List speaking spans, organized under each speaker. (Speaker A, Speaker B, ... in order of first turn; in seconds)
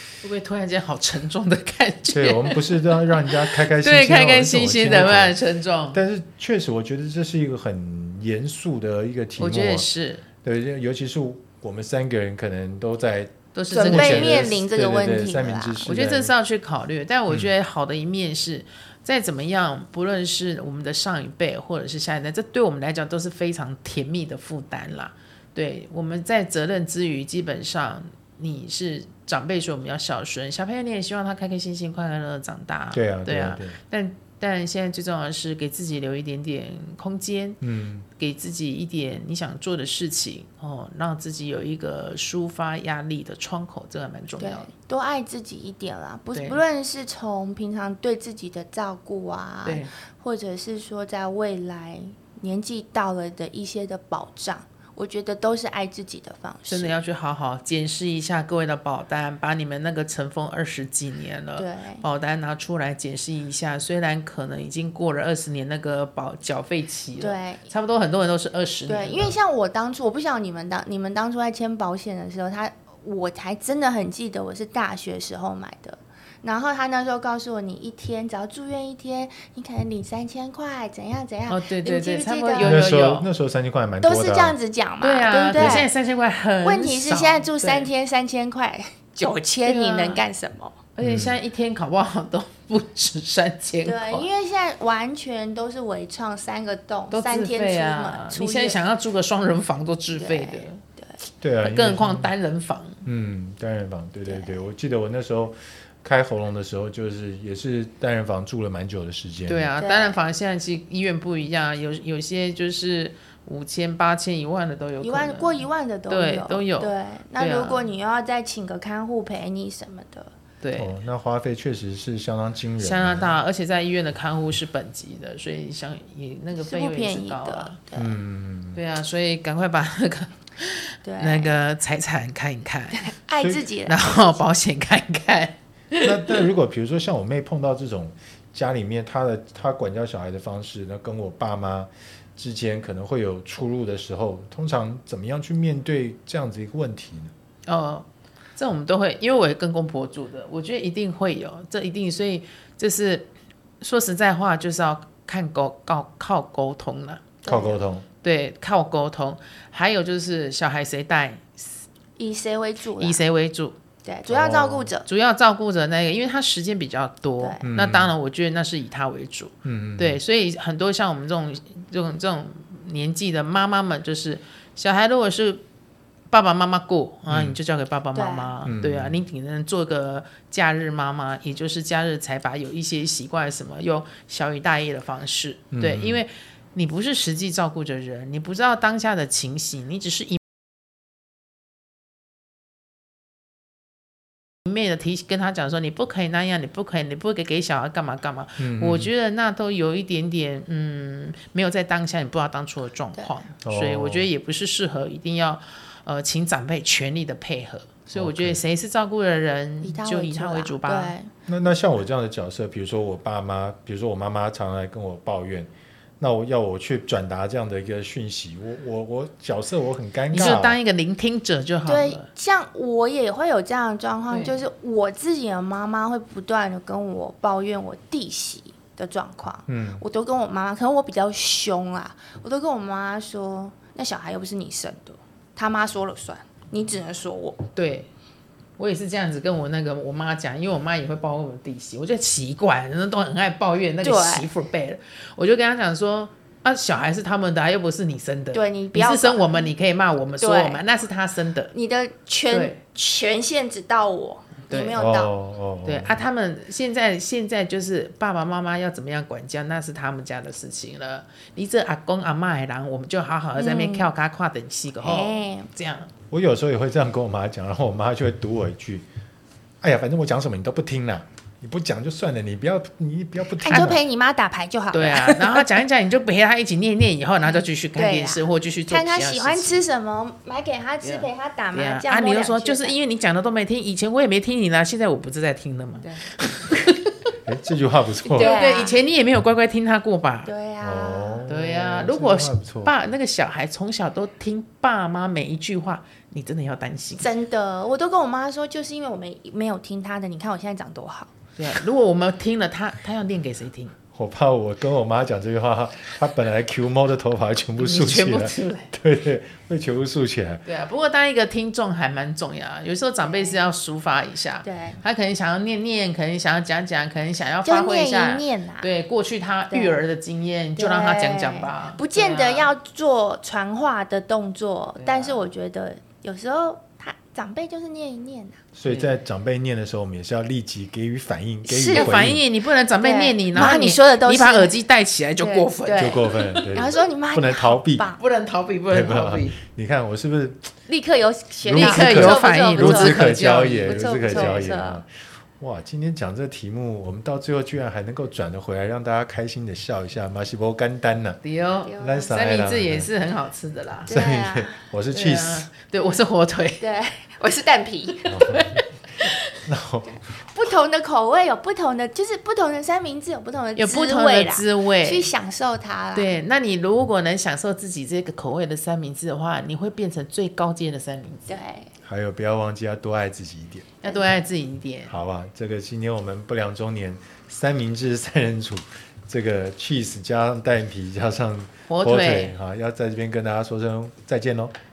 Speaker A: 0.2-6.0, 9.4-10.2, 13.6-14.6, 15.8-37.6, 38.2-44.7, 49.6-49.9, 56.7-69.4, 81.5-83.3, 85.0-87.9, 89.7-90.2, 91.0-94.3, 97.1-100.8, 101.6-103.0, 109.5-117.9, 120.6-120.9, 122.8-127.8, 128.7-133.2, 133.8-136.5, 147.7-153.3, 153.8-157.3, 158.2-161.8, 163.0-163.8, 165.1-175.6, 176.3-190.4, 194.6-211.2, 220.3-222.3, 224.3-224.6, 237.8-238.1, 238.8-251.7, 252.5-252.8, 254.7-255.0, 255.8-266.1, 274.9-279.8, 281.0-287.3, 288.3-290.5, 291.5-297.3, 301.6-304.0, 307.8-308.9, 310.6-322.7, 325.0-325.4, 328.9-329.1, 331.9-336.8, 338.2-339.6, 341.7-344.7, 351.4-354.1, 355.1-356.8, 358.6-359.3, 363.8-365.3, 366.1-371.6, 374.0-375.1, 381.9-382.5
Speaker B: 2.1-5.4, 5.9-9.9, 10.4-16.3, 32.9-33.8, 37.6-38.1, 82.6-84.6, 85.5-85.9, 91.0-91.3, 101.4-102.3, 103.0-109.7, 120.8-123.3, 128.0-128.8, 133.4-133.7, 136.0-147.3, 157.4-158.1, 164.3-164.9, 167.6-168.1, 169.7-170.2, 177.3-177.6, 178.6-179.2, 185.7-186.2, 198.6-199.1, 203.6-204.3, 208.1-208.6, 211.5-220.8, 229.7-230.0, 255.0-256.2, 266.3-269.1, 269.8-274.0, 287.5-288.6, 290.8-292.9, 304.1-310.6, 328.8-332.4, 335.9-338.1, 338.9-340.7, 341.7-351.4, 352.0-353.1, 354.1-355.7, 358.3-358.8, 359.6-360.2, 372.0-373.9, 375.1-384.7
Speaker C: 13.7-15.8, 44.4-57.0, 61.6-62.0, 67.2-67.7, 68.9-82.9, 84.0-85.9, 86.6-90.8, 93.8-98.8, 100.2-101.1, 104.3-104.5, 109.8-110.2, 115.0-120.3, 126.6-128.2, 131.1-131.6, 133.0-134.4, 157.4-157.8, 162.2-163.2, 164.1-165.1, 167.4-167.7, 178.1-178.5, 209.8-211.3, 221.9-237.7, 244.0-244.5, 248.5-249.7, 250.4-250.8, 251.7-255.3, 263.6-264.1, 265.0-265.7, 273.6-275.6, 277.4-282.9, 286.0-286.3, 288.4-289.0, 290.4-291.5, 297.2-301.4, 313.2-313.7, 314.6-315.0, 317.6-318.9, 319.7-320.0, 320.8-328.6, 331.6-332.2, 333.0-334.7, 335.4-338.2, 340.9-345.0, 351.9-352.4, 354.1-354.8, 356.8-358.6, 360.4-366.3, 371.5-371.9, 374.0-374.4